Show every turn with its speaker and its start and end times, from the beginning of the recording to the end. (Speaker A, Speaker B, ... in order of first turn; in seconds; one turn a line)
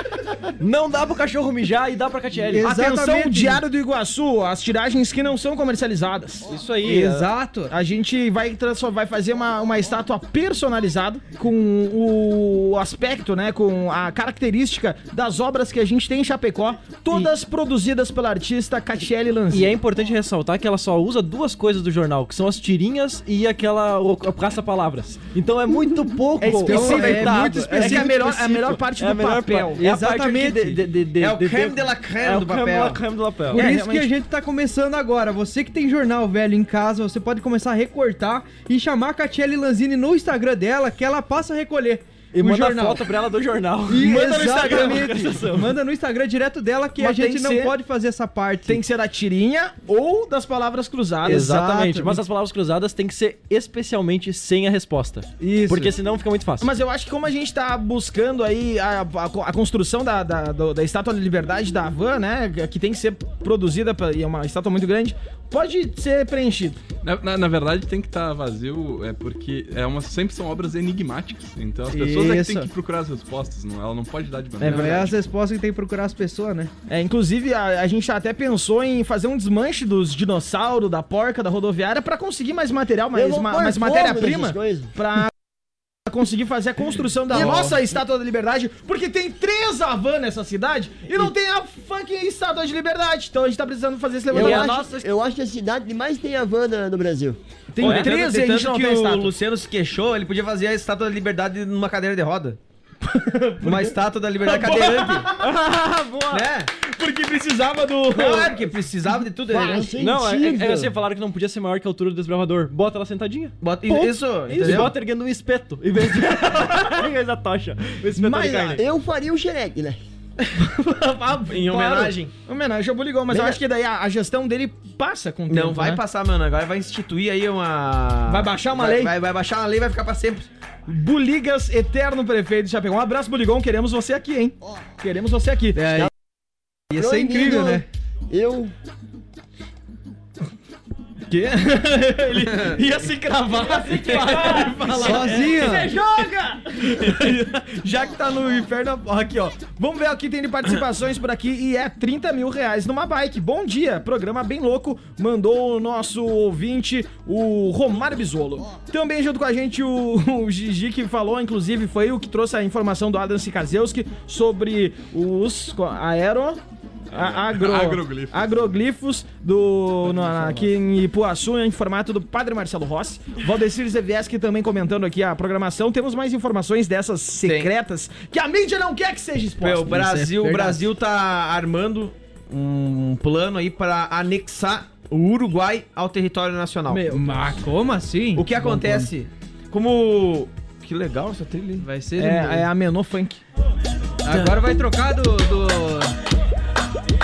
Speaker A: 0.6-2.7
Speaker B: 2.5-3.6
Speaker C: 2.6-6.5
Speaker A: 6.5-7.3
Speaker B: 6.8-7.7
Speaker C: 7.7-19.8
Speaker A: 19.5-33.7
Speaker C: 26.4-29.8
Speaker B: 26.4-28.3
Speaker B: 29.8-31.1
Speaker D: 31.2-33.0
Speaker B: 33.5-43.0
Speaker C: 33.5-34.1
Speaker A: 42.3-45.8
Speaker B: 43.9-48.8
Speaker C: 44.0-45.1
Speaker C: 47.0-47.7
Speaker C: 48.7-51.8
Speaker A: 51.2-56.7
Speaker B: 51.3-52.2
Speaker B: 55.4-55.9
Speaker C: 56.6-66.8
Speaker E: 67.0-75.2
Speaker B: 71.9-72.7
Speaker C: 74.6-75.1
Speaker B: 74.6-76.7
Speaker C: 76.9-85.3
Speaker F: 83.1-84.9
Speaker C: 86.0-95.0
Speaker F: 87.3-87.8
Speaker D: 87.4-87.7
Speaker F: 94.3-97.4
Speaker C: 97.7-99.3
Speaker D: 97.8-102.6
Speaker A: 97.8-98.1
Speaker C: 103.0-105.4
Speaker D: 103.6-105.3
Speaker A: 105.4-106.5
Speaker D: 106.3-106.7
Speaker C: 106.8-108.6
Speaker D: 108.1-109.9
Speaker F: 109.5-110.9
Speaker C: 109.5-109.8
Speaker A: 110.0-118.8
Speaker D: 113.6-114.9
Speaker C: 118.2-118.8
Speaker F: 118.8-120.0
Speaker C: 120.4-126.0
Speaker D: 121.4-122.3
Speaker F: 123.3-123.6
Speaker D: 125.5-130.5
Speaker C: 128.3-129.1
Speaker C: 130.9-135.8
Speaker B: 135.8-136.1
Speaker B: 136.9-137.8
Speaker F: 136.9-138.7
Speaker C: 141.3-166.6
Speaker D: 142.5-142.8
Speaker D: 143.6-145.4
Speaker B: 145.0-146.0
Speaker C: 167.1-180.0
Speaker E: 167.1-168.6
Speaker D: 177.4-177.7
Speaker D: 179.6-187.2
Speaker B: 179.9-180.9
Speaker B: 186.9-189.1
Speaker D: 188.3-191.9
Speaker B: 191.8-192.7
Speaker C: 192.2-193.4
Speaker B: 194.2-196.2